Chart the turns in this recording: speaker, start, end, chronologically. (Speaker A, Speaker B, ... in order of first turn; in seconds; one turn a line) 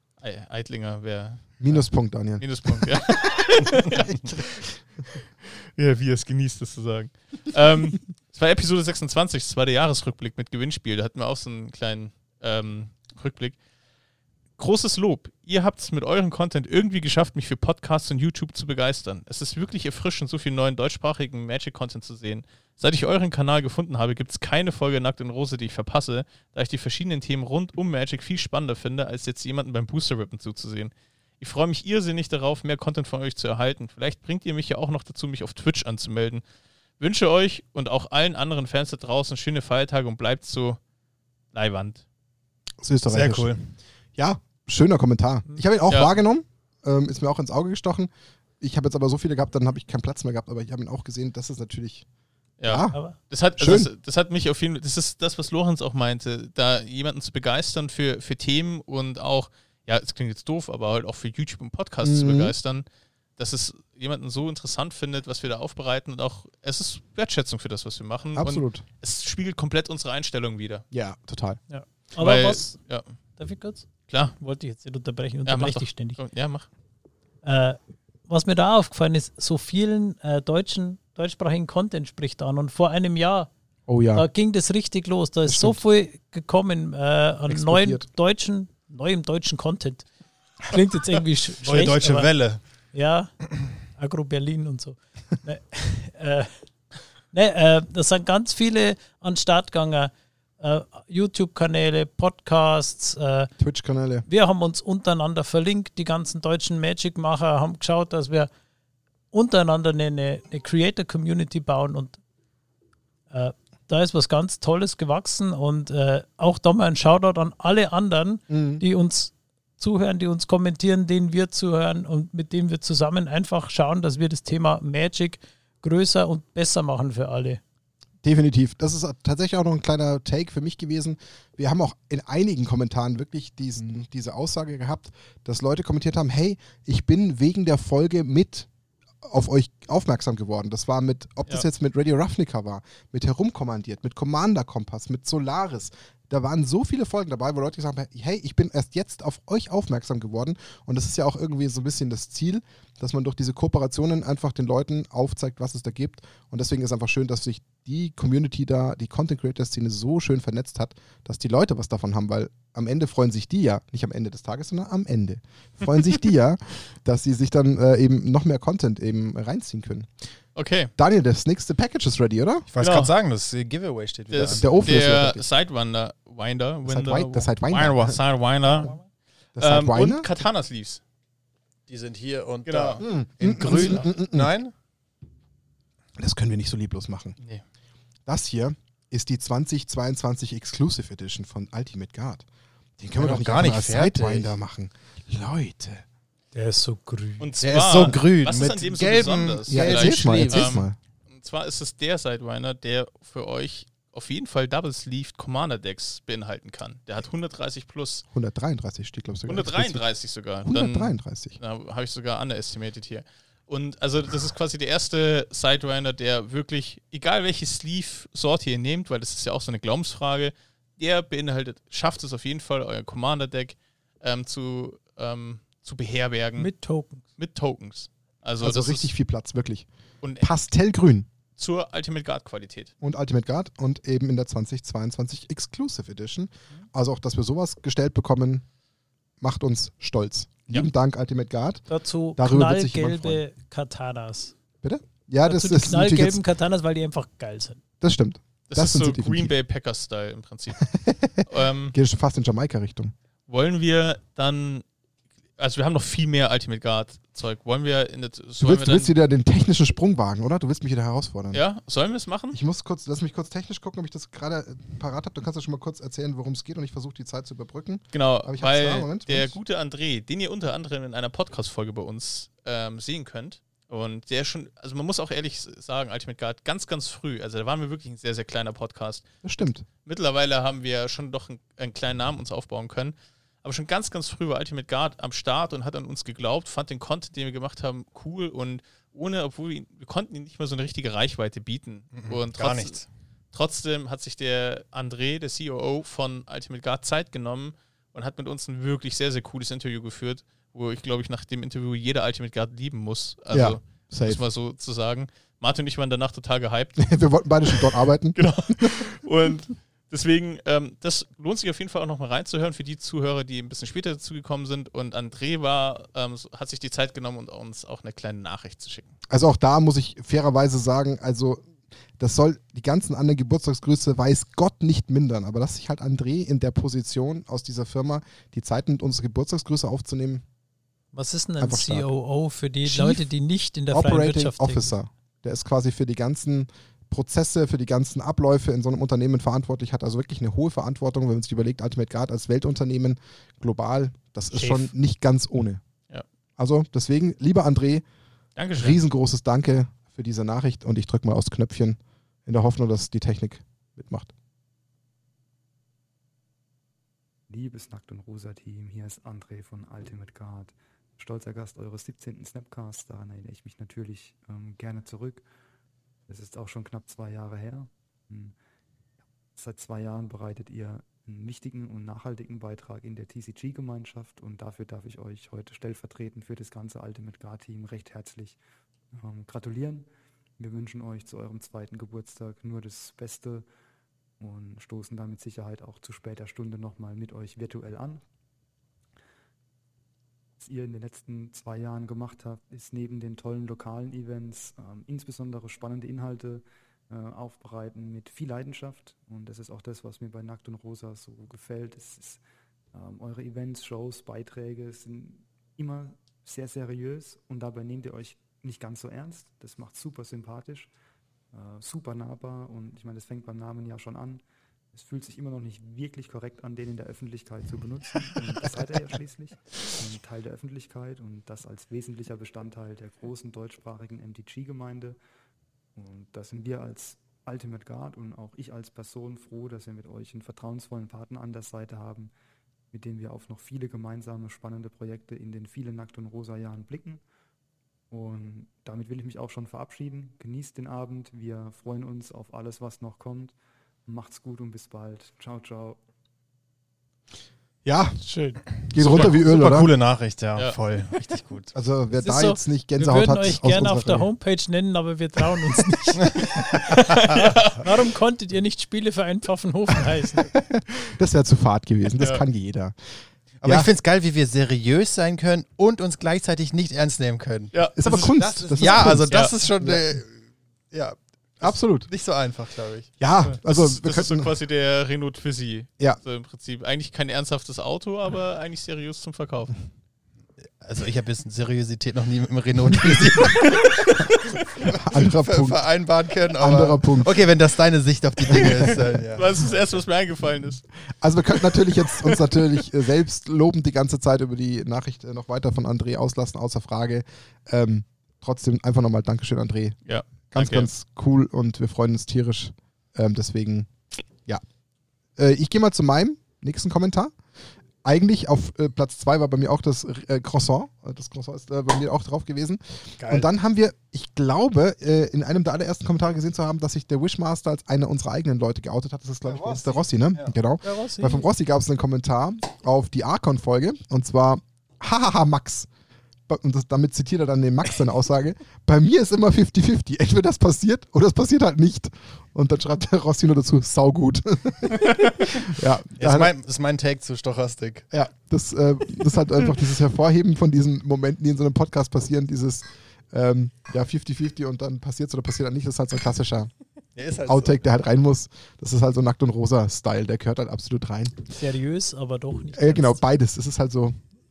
Speaker A: 0.2-13.6
Speaker B: 1.6-4.5
Speaker A: 14.6-36.4
Speaker A: 37.0-40.8
Speaker A: 41.5-42.0
Speaker B: 42.8-43.5
Speaker C: 43.1-43.7
Speaker B: 44.1-52.0
Speaker A: 45.9-46.1
Speaker A: 52.6-62.8
Speaker B: 52.6-53.0
Speaker B: 53.5-53.9
Speaker B: 62.0-62.5
Speaker A: 63.4-70.8
Speaker B: 68.3-68.8
Speaker B: 70.9-71.6
Speaker D: 71.7-72.8
Speaker A: 72.2-73.1
Speaker D: 73.4-73.9
Speaker A: 74.1-74.3
Speaker D: 74.4-76.2
Speaker A: 75.5-76.7
Speaker D: 77.4-83.5
Speaker B: 83.9-84.2
Speaker D: 84.1-90.0
Speaker B: 85.5-85.8
Speaker B: 87.5-88.0
Speaker D: 90.6-92.3
Speaker C: 91.6-92.6
Speaker D: 92.9-93.3
Speaker D: 93.9-96.5
Speaker D: 97.3-103.5
Speaker B: 103.6-104.2
Speaker D: 104.3-108.5
Speaker D: 109.3-112.2
Speaker D: 113.3-127.6
Speaker B: 118.5-118.8
Speaker B: 128.2-138.7
Speaker B: 139.2-170.1
Speaker A: 170.6-170.9
Speaker B: 171.0-172.7
Speaker C: 172.7-174.9
Speaker A: 172.8-173.1
Speaker A: 174.3-178.9
Speaker B: 174.5-175.4
Speaker B: 176.8-178.2
Speaker B: 179.6-180.3
Speaker A: 179.6-181.0
Speaker C: 181.9-184.7
Speaker A: 182.6-183.0
Speaker B: 183.0-184.5
Speaker B: 186.2-187.3
Speaker B: 188.3-192.4
Speaker B: 193.0-196.0
Speaker C: 193.2-194.5
Speaker D: 196.5-197.4
Speaker A: 197.4-208.2
Speaker C: 197.6-200.8
Speaker B: 199.7-201.0
Speaker B: 208.3-210.0
Speaker A: 209.5-226.7
Speaker B: 210.6-211.6
Speaker D: 226.6-227.2
Speaker A: 227.4-229.1
Speaker B: 228.6-229.9
Speaker A: 230.2-230.5
Speaker B: 230.4-231.3
Speaker A: 231.6-232.9
Speaker B: 233.0-238.6
Speaker B: 239.4-241.8
Speaker D: 241.9-244.5
Speaker B: 242.4-243.4
Speaker B: 244.8-246.4
Speaker D: 245.4-247.8
Speaker B: 248.0-249.5
Speaker A: 248.7-251.9
Speaker B: 251.1-251.4
Speaker B: 251.9-253.1
Speaker A: 253.5-254.8
Speaker A: 255.6-259.1
Speaker B: 258.6-261.6
Speaker A: 261.5-262.6
Speaker B: 262.5-269.6
Speaker A: 268.1-279.2
Speaker B: 279.4-279.9
Speaker A: 280.0-293.0
Speaker C: 292.1-293.1
Speaker A: 293.5-307.0
Speaker B: 303.5-304.4
Speaker B: 307.0-309.0
Speaker A: 307.7-319.1
Speaker B: 319.3-321.6
Speaker B: 322.2-330.4
Speaker D: 331.1-334.9
Speaker B: 331.6-332.1
Speaker B: 332.8-333.3
Speaker B: 333.9-345.8
Speaker D: 344.5-344.9
Speaker B: 346.6-348.0
Speaker A: 348.6-349.0
Speaker B: 348.7-354.3
Speaker E: 357.5-365.4
Speaker E: 366.3-368.6
Speaker E: 369.5-378.6
Speaker E: 379.1-383.7
Speaker E: 384.4-388.2
Speaker E: 390.6-402.4
Speaker E: 402.9-410.9
Speaker E: 411.5-425.2
Speaker E: 425.9-432.3
Speaker E: 432.9-437.2
Speaker E: 438.1-446.0
Speaker B: 447.8-448.2
Speaker D: 448.2-448.6
Speaker B: 448.7-449.9
Speaker C: 448.9-451.7
Speaker A: 449.1-449.3
Speaker B: 451.7-454.3
Speaker D: 452.2-460.5
Speaker A: 457.3-457.8
Speaker B: 460.5-462.9
Speaker A: 462.2-462.4
Speaker C: 463.6-473.1
Speaker B: 463.6-463.9
Speaker A: 467.7-468.4
Speaker B: 467.9-470.0
Speaker A: 469.3-469.6
Speaker B: 471.6-472.1
Speaker B: 473.2-474.5
Speaker A: 473.5-479.8
Speaker C: 480.8-489.4
Speaker B: 483.0-483.7
Speaker B: 484.9-485.8
Speaker B: 486.5-487.4
Speaker B: 488.5-488.8
Speaker A: 489.3-490.8
Speaker B: 491.2-500.0
Speaker A: 500.1-500.9
Speaker B: 500.5-503.9
Speaker B: 505.4-507.3
Speaker B: 508.0-525.9
Speaker C: 513.2-513.5
Speaker C: 519.5-520.5
Speaker D: 520.8-521.5
Speaker B: 526.5-536.5
Speaker C: 536.2-538.0
Speaker B: 538.1-546.7
Speaker C: 547.1-547.8
Speaker B: 547.4-551.4
Speaker D: 551.5-553.2
Speaker B: 552.8-554.2